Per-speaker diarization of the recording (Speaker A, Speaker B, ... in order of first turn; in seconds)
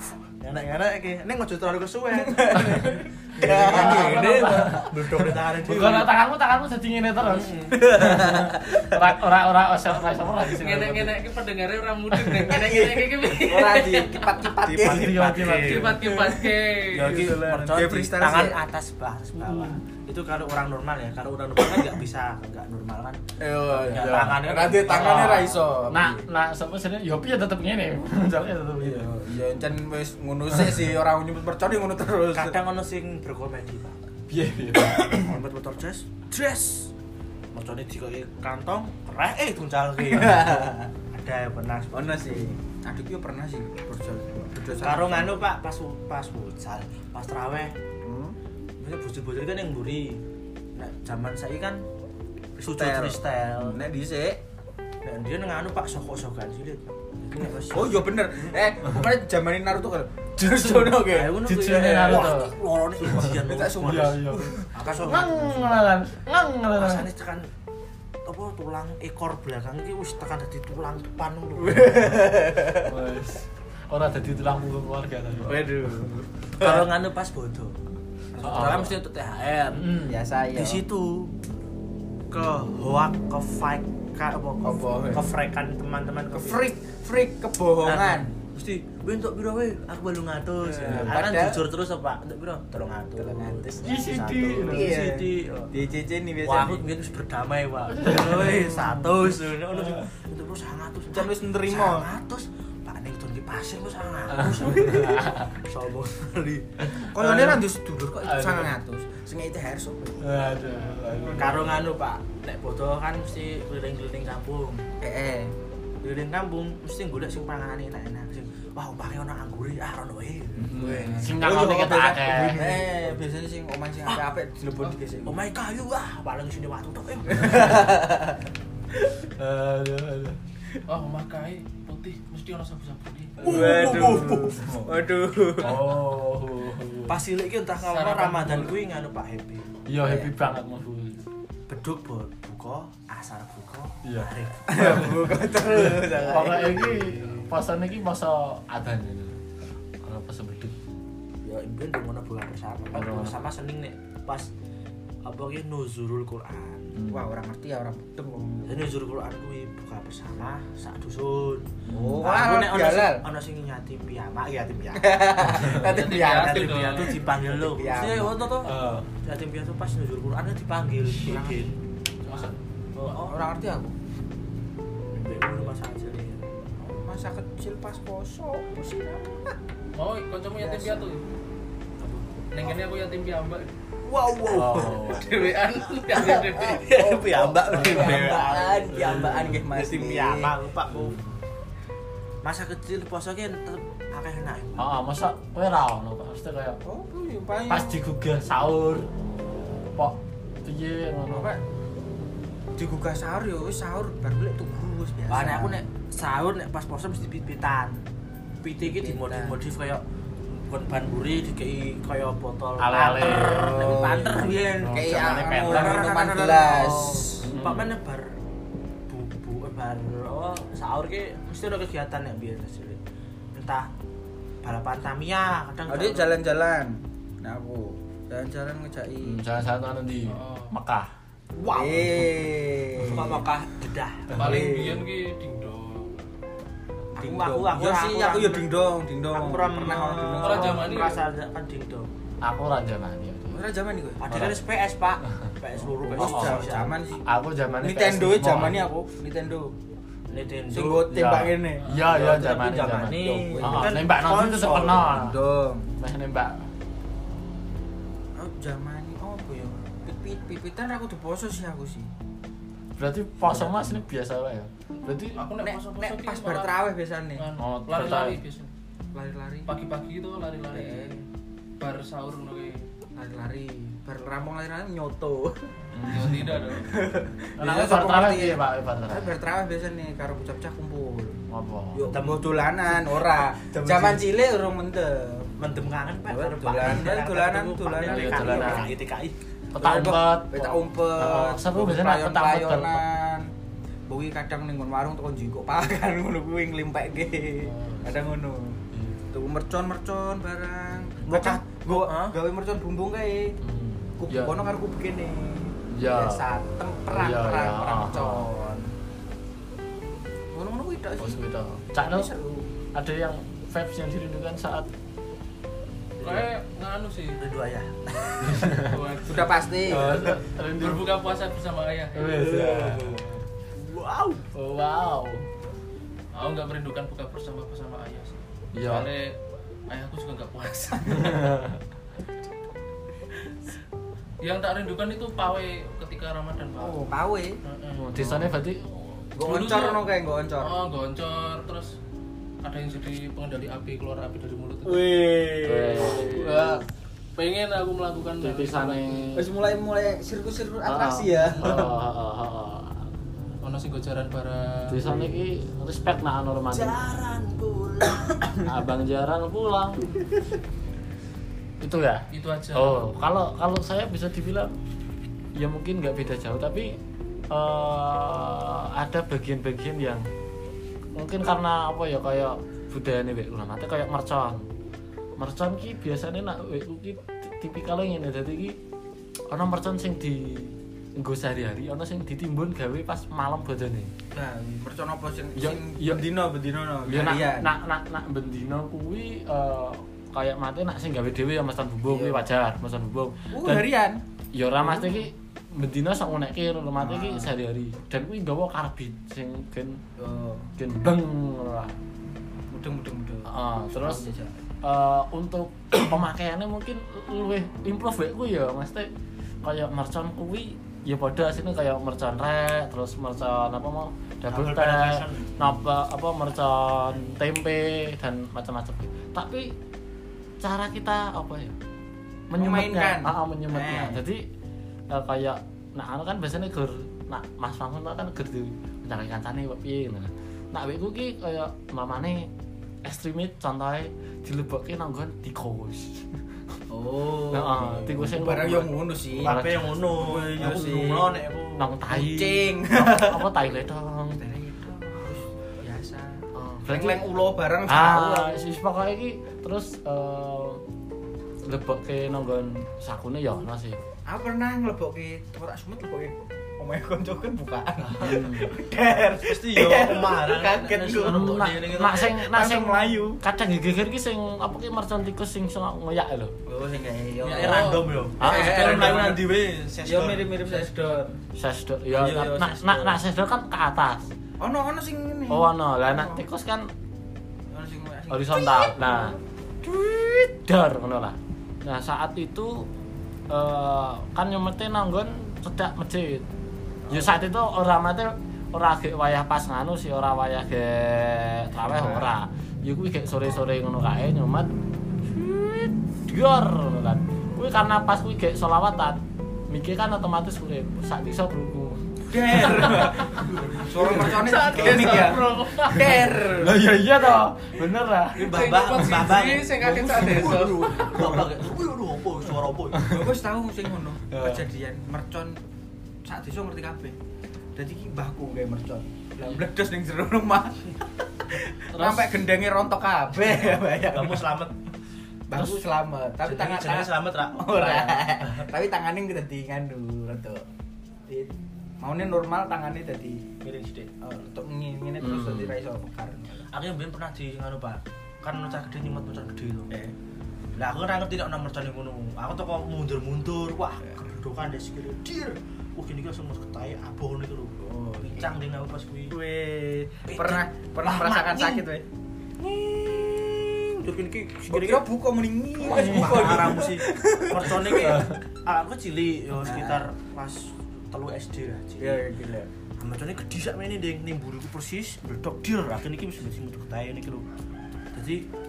Speaker A: 0.4-6.1, 7.3-8.5, 14.7-16.3, 16.9-23.2, 23.8-25.7, 32.3-34.0, 35.1-36.9, 37.5-42.5, 44.8-47.7, 48.8-50.2, 50.8-51.8, 52.6-53.8, 55.0-58.5, 61.0-65.8, 66.8-67.5, 68.2-72.2, 75.5-77.8, 78.4-81.3, 82.3-86.6, 87.8-95.7, 96.4-106.7, 111.3-114.8, 116.0-121.7, 122.6-122.8, 125.3-127.9, 133.4-134.7, 137.1-139.7, 141.7-145.1, 151.4-154.5, 155.3-156.9, 158.7-171.7, 172.9-173.4, 175.1-176.5, 184.1-185.2, 186.1-191.2, 192.4-194.9, 205.3-208.0, 208.6-214.9, 215.6-218.3, 219.1-223.0, 223.5-223.9, 224.6-226.3, 231.6-232.3, 233.0-234.6, 237.2-238.8, 239.3-242.1, 244.2-247.0, 250.3-251.1, 251.9-255.1, 282.1-284.2, 285.6-289.4, 301.3-302.4, 316.2-316.5, 317.4-318.8, 322.4-324.4, 356.7-358.5, 414.5-415.7, 439.4-441.9, 458.1-458.4, 459.4-462.3, 467.4-470.9, 502.4-505.3, 508.4-513.1, 523.5-524.7, 526.4-528.7, 533.6-534.1, 536.7-539.9, 540.8-549.4, 550.3-551.9, 552.6-555.1, 555.9-562.2, 563.0-567.5, 568.1-568.5
Speaker B: 2.2-4.7, 8.0-8.5, 12.4-15.4, 16.1-16.4, 17.7-18.6, 23.4-26.3, 28.8-32.6, 34.8-35.2, 40.0-40.9, 41.9-45.4, 48.0-48.4, 52.6-54.4, 57.7-61.4, 63.2-65.6, 71.6-72.9, 75.5-76.1, 78.3-79.0, 80.1-80.8, 84.6-85.3, 86.3-88.3, 90.7-91.7, 93.1-96.8, 101.1-102.1, 107.0-111.8, 115.0-115.5, 120.7-125.4, 127.3-128.4, 133.4-135.8, 140.0-140.3, 144.7-147.0, 157.1-158.9, 161.9-163.2, 165.0-168.4, 171.2-171.7, 173.1-173.9, 176.8-179.6, 180.6-181.1, 186.2-190.6, 196.8-198.0, 201.3-201.6, 202.8-205.8, 208.8-209.6, 213.4-217.5, 225.9-229.4, 231.7-233.5, 234.3-235.1, 237.2-241.0, 243.5-244.3, 245.8-247.2, 247.8-249.7, 250.7-251.8, 253.1-254.0, 254.9-255.9, 258.4-262.1, 263.5-264.0, 265.6-267.5, 269.1-269.7, 270.7-271.2, 273.1-275.7, 276.8-281.4, 281.9-285.5, 286.3-288.9, 289.8-293.5, 294.1-298.8, 299.3-303.6, 304.2-308.9, 310.5-311.4, 312.0-312.7, 319.3-320.2, 336.8-337.6, 339.4-340.8, 344.9-346.8, 349.4-351.9, 384.3-387.7, 392.1-392.5, 393.5-394.2, 394.8-395.2, 397.0-397.5, 400.2-400.7, 402.7-404.6, 422.6-424.2, 436.9-439.6, 440.1-441.4, 442.1-443.5, 444.4-448.6, 454.3-463.4, 466.7-471.3, 472.1-473.2, 474.6-476.4, 477.7-479.2, 487.1-487.3, 491.8-492.3, 502.3-506.8, 513.1-515.6, 516.2-517.1, 517.8-520.9, 521.5-524.5, 525.5-530.7, 531.3-533.5, 534.2-536.7, 547.8-548.5, 549.3-552.1, 554.7-558.2, 559.6-560.0, 562.0-562.7
Speaker C: 2.6-2.9, 3.6-11.2, 14.7-16.0, 23.8-29.1, 34.3-35.3, 60.4-62.5, 63.8-67.1, 72.8-75.6, 76.6-76.9, 78.4-79.0, 90.8-91.1, 93.8-94.9, 97.9-99.1, 99.7-100.1, 104.3-105.5, 106.8-107.6, 108.2-108.7, 110.2-111.7, 120.6-122.9, 129.4-130.4, 133.5-134.9, 135.6-137.2, 139.9-141.2, 144.0-145.2, 145.8-149.4, 150.0-150.8, 152.9-153.3, 157.0-157.3, 161.9-162.2, 168.7-169.1, 172.3-172.5, 184.5-185.2, 194.8-196.8, 197.7-199.1, 200.0-201.5, 212.8-213.9, 214.8-216.1, 217.4-217.9, 229.2-231.1, 242.4-243.6, 244.3-244.6, 246.2-246.6, 247.3-248.9, 251.1-255.4, 256.0-256.7, 263.0-265.4, 267.6-268.4, 275.9-276.5, 277.6-279.4, 281.5-282.0, 288.0-288.9, 289.7-293.1, 298.9-299.2, 303.6-304.6, 305.9-306.4, 307.1-308.5, 311.2-312.3, 312.9-314.9, 318.4-318.9, 319.9-321.1, 322.1-323.3, 324.5-325.4, 328.7-329.1, 331.1-331.8, 338.0-339.2, 345.6-346.4, 348.4-349.4, 350.9-352.9, 354.9-357.0, 358.6-360.1, 361.8-364.7, 365.6-367.0, 367.5-370.3, 371.2-374.6, 375.4-378.8, 379.5-384.1, 385.6-386.3, 387.1-393.9, 394.5-400.0, 400.8-401.9, 403.5-404.3, 404.8-409.1, 409.6-419.7, 420.6-421.8, 422.5-424.4, 425.1-432.5, 433.1-436.3, 437.5-439.9, 441.8-444.4, 446.5-447.2, 447.9-450.8, 451.6-454.0, 458.2-458.7, 461.2-466.5, 468.4-469.0, 471.6-474.3, 475.5-476.9, 478.3-482.9, 483.5-486.5, 487.1-494.7, 495.2-499.2, 499.7-503.5, 505.8-508.7, 513.0-513.2, 514.3-514.6, 521.9-522.3, 535.2-535.8, 555.9-556.5, 558.0-558.4
Speaker D: 10.4-14.6, 15.5-17.6, 130.9-133.7, 137.8-138.8, 165.8-167.2, 179.9-181.2, 182.5-183.7, 185.0-186.8, 230.3-230.7, 234.3-236.2, 240.4-241.2, 265.4-266.7, 267.4-268.7, 269.7-271.1, 271.8-272.9, 276.1-276.9, 316.2-317.4, 318.8-319.5, 320.2-322.4, 326.3-331.4, 334.4-337.0, 337.7-338.1, 339.4-340.1, 340.6-342.0, 342.6-345.3, 345.9-349.2, 351.5-351.9, 353.6-355.3, 362.3-363.0, 467.6-468.1, 504.0-506.3, 508.4-511.0